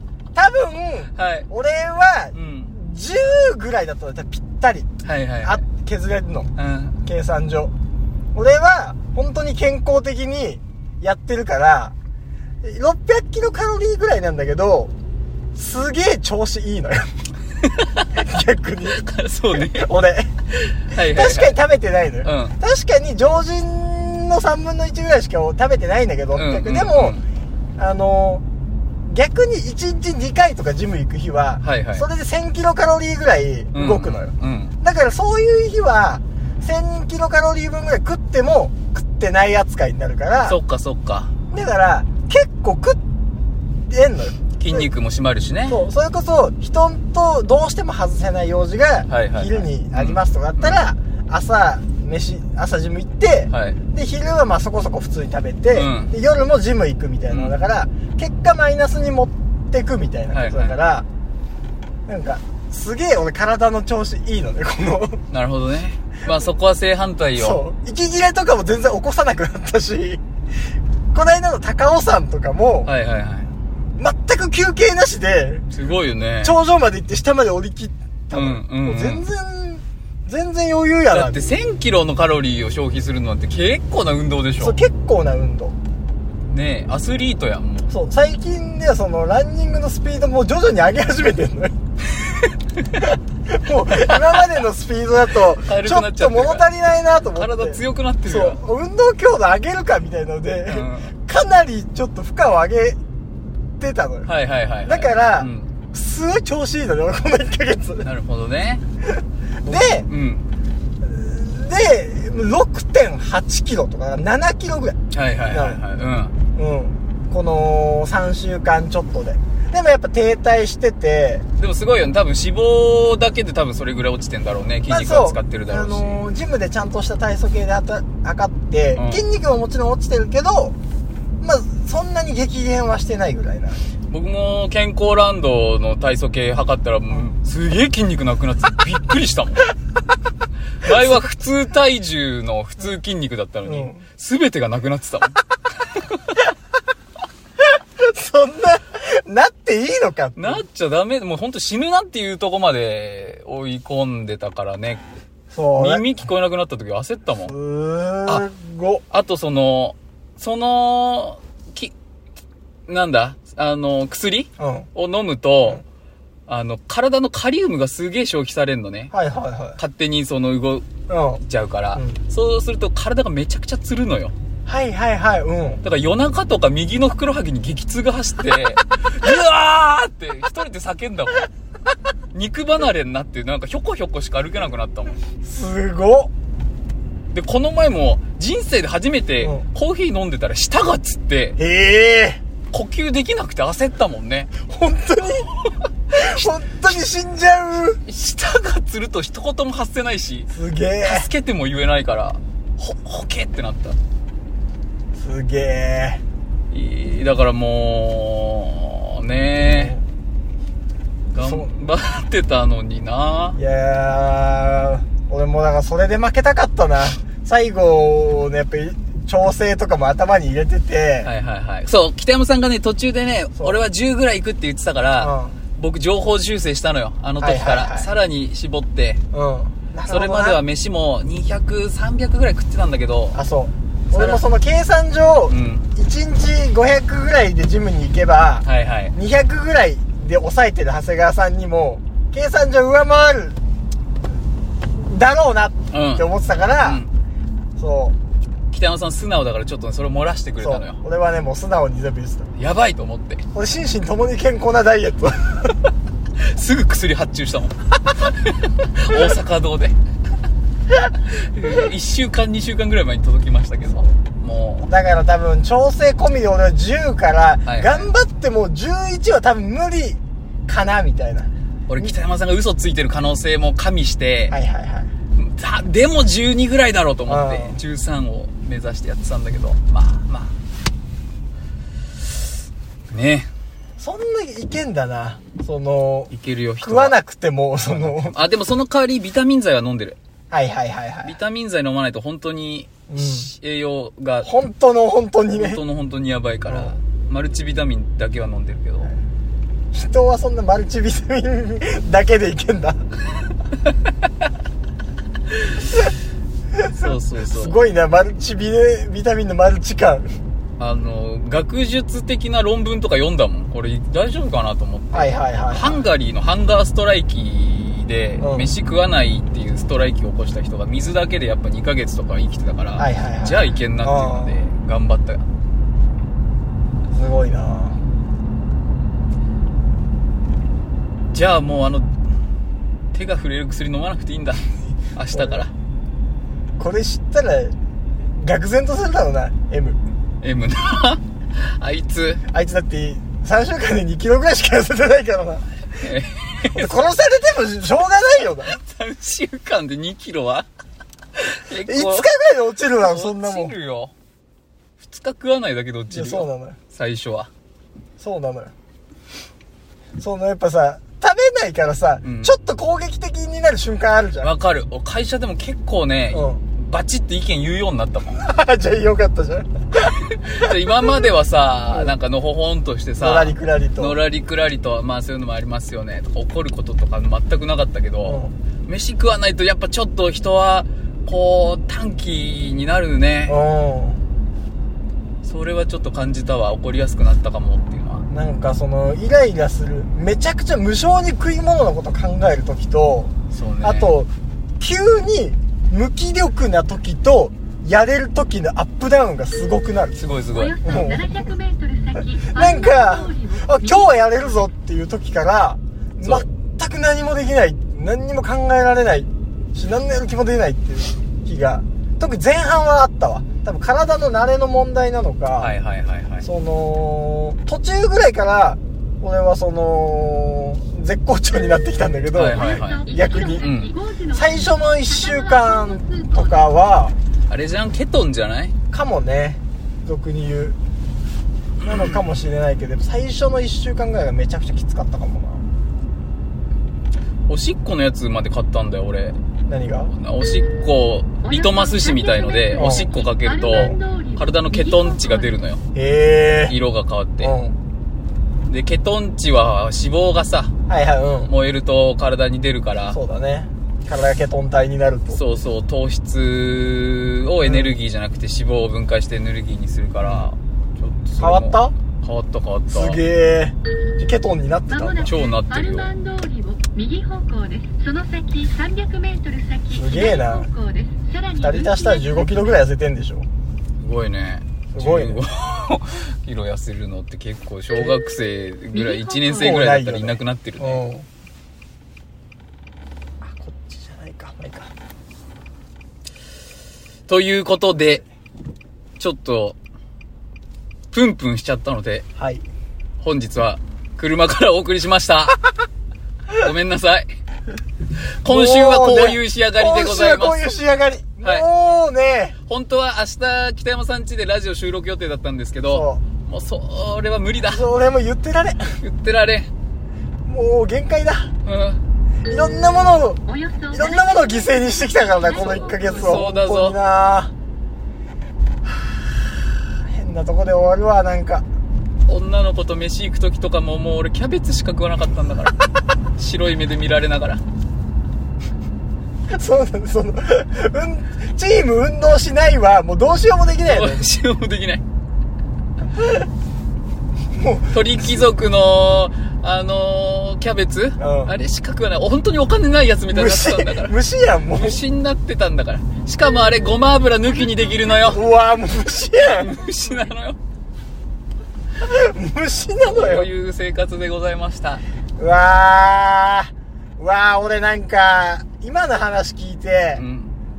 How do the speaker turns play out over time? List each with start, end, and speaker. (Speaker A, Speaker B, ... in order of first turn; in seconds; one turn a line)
Speaker A: 0.3-4.9
Speaker B: 1.2-1.5
Speaker B: 2.3-2.7
Speaker B: 5.0-5.6
Speaker A: 5.4-6.5
Speaker B: 6.6-7.0
Speaker A: 7.0-7.7
Speaker A: 8.3-11.9
Speaker A: 12.6-14.9
Speaker A: 15.6-17.1
Speaker B: 17.7-18.1
Speaker A: 18.1-20.3
Speaker B: 19.0-19.9
Speaker B: 20.5-21.6
Speaker A: 20.9-27.2
Speaker B: 22.2-22.6
Speaker B: 26.3-27.2
Speaker A: 27.8-28.4
Speaker A: 29.1-40.6
Speaker B: 31.6-32.0
Speaker B: 33.7-34.8
Speaker B: 40.5-41.4
Speaker A: 41.5-43.0
Speaker A: 43.9-44.9
Speaker B: 44.6-45.8
Speaker A: 45.7-61.1
Speaker B: 49.1-50.8
Speaker B: 53.5-53.8
Speaker B: 55.7-56.1
Speaker B: 57.3-57.6
Speaker B: 60.3-60.8
Speaker A: 62.1-65.2
Speaker B: 65.3-67.6
Speaker A: 67.4-70.2
Speaker A: 71.1-72.9
Speaker B: 72.8-73.5
Speaker A: 74.0-75.7
Speaker B: 75.7-76.5
Speaker A: 76.4-81.4
Speaker B: 78.3-79.3
Speaker B: 81.1-84.8
Speaker A: 84.6-85.8
Speaker B: 86.5-87.9
Speaker A: 87.9-91.7
Speaker A: 93.0-103.0
Speaker B: 95.6-96.7
Speaker B: 97.4-98.6
Speaker B: 100.7-101.2
Speaker A: 103.8-104.3
Speaker B: 104.3-105.7
Speaker A: 104.8-108.1
Speaker B: 108.0-108.8
Speaker A: 109.6-110.1
Speaker B: 109.7-110.5
Speaker A: 111.0-115.0
Speaker B: 115.1-116.3
Speaker A: 115.5-115.8
Speaker A: 116.6-121.5
Speaker B: 121.6-126.2
Speaker A: 124.9-130.8
Speaker B: 129.0-129.2
Speaker A: 131.4-133.8
Speaker B: 134.1-139.7
Speaker B: 140.8-145.4
Speaker A: 143.7-144.0
Speaker B: 145.9-146.3
Speaker A: 148.0-150.6
Speaker B: 150.4-155.0
Speaker A: 155.5-156.0
Speaker B: 155.8-157.5
Speaker A: 157.5-159.0
Speaker B: 159.1-161.9
Speaker B: 162.9-165.8
Speaker A: 164.6-164.9
Speaker B: 166.5-169.1
Speaker A: 169.1-169.8
Speaker B: 169.8-170.9
Speaker A: 171.1-171.4
Speaker B: 171.4-174.3
Speaker A: 174.7-175.8
Speaker B: 175.8-181.5
Speaker B: 182.3-185.2
Speaker A: 185.4-186.3
Speaker B: 187.3-191.6
Speaker A: 189.4-189.7
Speaker A: 191.6-192.4
Speaker B: 192.7-194.5
Speaker A: 194.7-195.5
Speaker A: 196.1-198.0
Speaker B: 198.1-200.5
Speaker A: 200.5-201.3
Speaker B: 201.0-204.0
Speaker A: 205.2-206.2
Speaker B: 206.7-210.0
Speaker A: 209.7-210.0
Speaker B: 211.3-213.6
Speaker A: 211.4-211.7
Speaker A: 213.6-221.3
Speaker B: 221.2-229.2
Speaker A: 225.2-225.6
Speaker A: 227.4-228.1
Speaker A: 229.3-230.6
Speaker B: 230.1-233.4
Speaker A: 233.3-243.6
Speaker B: 234.1-234.4
Speaker B: 235.5-235.9
Speaker B: 238.7-239.1
Speaker A: 245.0-247.0
Speaker B: 245.9-246.3
Speaker B: 246.8-247.1
Speaker A: 247.8-248.2
Speaker B: 248.7-251.0
Speaker A: 250.6-252.5
Speaker B: 252.6-253.4
Speaker A: 253.5-255.7
Speaker B: 256.4-259.9
Speaker B: 261.2-264.9
Speaker A: 264.9-272.1
Speaker B: 267.7-268.1
Speaker B: 271.9-274.6
Speaker A: 274.5-275.1
Speaker B: 275.4-280.6
Speaker A: 277.3-277.8
Speaker B: 283.1-283.5
Speaker A: 284.0-288.4
Speaker B: 286.3-287.1
Speaker B: 287.9-290.2
Speaker A: 290.5-291.4
Speaker B: 291.2-294.5
Speaker A: 293.1-293.5
Speaker A: 294.4-295.8
Speaker B: 295.5-299.1
Speaker A: 296.7-296.9
Speaker A: 299.9-303.0
Speaker B: 306.9-307.8
Speaker A: 307.5-310.4
Speaker B: 310.8-325.4
Speaker A: 315.1-316.1
Speaker A: 318.4-318.7
Speaker A: 323.0-324.6
Speaker A: 327.1-328.0
Speaker B: 331.3-332.1
Speaker B: 333.1-335.7
Speaker A: 335.3-335.6
Speaker A: 336.8-337.8
Speaker A: 338.3-340.0
Speaker B: 340.4-342.4
Speaker A: 342.5-345.7
Speaker B: 345.9-347.0
Speaker A: 346.7-348.8
Speaker B: 348.5-350.7
Speaker B: 351.4-352.3
Speaker A: 351.9-353.8
Speaker B: 353.0-354.1
Speaker B: 355.0-357.5
Speaker A: 356.1-356.8
Speaker A: 358.2-358.7
Speaker A: 360.2-364.5
Speaker B: 362.2-362.6
Speaker B: 364.4-368.4
Speaker A: 366.3-366.6
Speaker A: 368.3-370.7
Speaker B: 370.2-383.6
Speaker A: 373.2-374.2
Speaker A: 378.2-378.5
Speaker A: 383.5-384.2
Speaker B: 385.4-388.2
Speaker A: 388.3-400.2
Speaker B: 393.5-394.1
Speaker B: 400.2-400.9
Speaker C: 400.8-403.7
Speaker A: 400.8-401.6
Speaker A: 402.4-415.7
Speaker B: 415.6-416.5
Speaker A: 416.4-423.7
Speaker B: 422.3-424.0
Speaker C: 422.8-424.4
Speaker A: 424.3-427.1
Speaker C: 425.4-426.3
Speaker B: 427.5-428.7
Speaker A: 428.9-430.8
Speaker B: 431.8-432.2
Speaker A: 431.8-435.6
Speaker B: 437.5-439.4
Speaker A: 439.7-440.1
Speaker B: 440.1-445.8
Speaker A: 442.8-443.1
Speaker C: 443.8-445.1
Speaker A: 445.9-446.8
Speaker B: 446.7-447.6
Speaker A: 447.4-447.8
Speaker B: 448.7-450.7
Speaker A: 450.9-451.5
Speaker B: 451.5-453.2
Speaker A: 453.1-455.4
Speaker B: 455.3-463.2
Speaker A: 457.6-457.9
Speaker A: 460.2-460.5
Speaker A: 461.4-461.9
Speaker A: 462.9-465.3
Speaker B: 465.2-466.1
Speaker C: 465.9-472.0
Speaker A: 469.9-470.7
Speaker A: 471.6-473.5
Speaker B: 474.0-481.0
Speaker A: 474.9-475.4
Speaker C: 479.1-479.4
Speaker A: 479.5-481.3
Speaker A: 483.4-484.9
Speaker B: 487.3-488.2
Speaker B: 489.2-489.8
Speaker B: 491.1-492.3
Speaker A: 492.4-492.6
Speaker B: 493.2-495.6
Speaker B: 496.5-497.3
Speaker B: 498.4-500.6
Speaker A: 498.5-502.6
Speaker B: 502.7-507.9
Speaker A: 505.9-506.2
Speaker A: 507.7-509.0
Speaker B: 509.0-509.7
Speaker A: 510.5-511.5
Speaker B: 511.6-512.0
Speaker A: 512.5-517.5
Speaker C: 513.6-514.4
Speaker B: 515.6-517.0
Speaker C: 515.6-516.0
Speaker A: 520.1-521.6
Speaker B: 522.3-525.8
Speaker B: 526.4-527.6
Speaker A: 529.5-534.3
Speaker B: 533.9-535.0
Speaker A: 537.6-538.5
Speaker B: 537.9-544.1
Speaker A: 541.2-541.5
Speaker A: 543.3-545.0
Speaker B: 544.7-548.4
Speaker A: 548.2-549.8
Speaker B: 549.5-550.6
Speaker A: 552.0-553.5
Speaker B: 553.0-555.0
Speaker A: 555.4-560.2
Speaker B: 560.2-560.6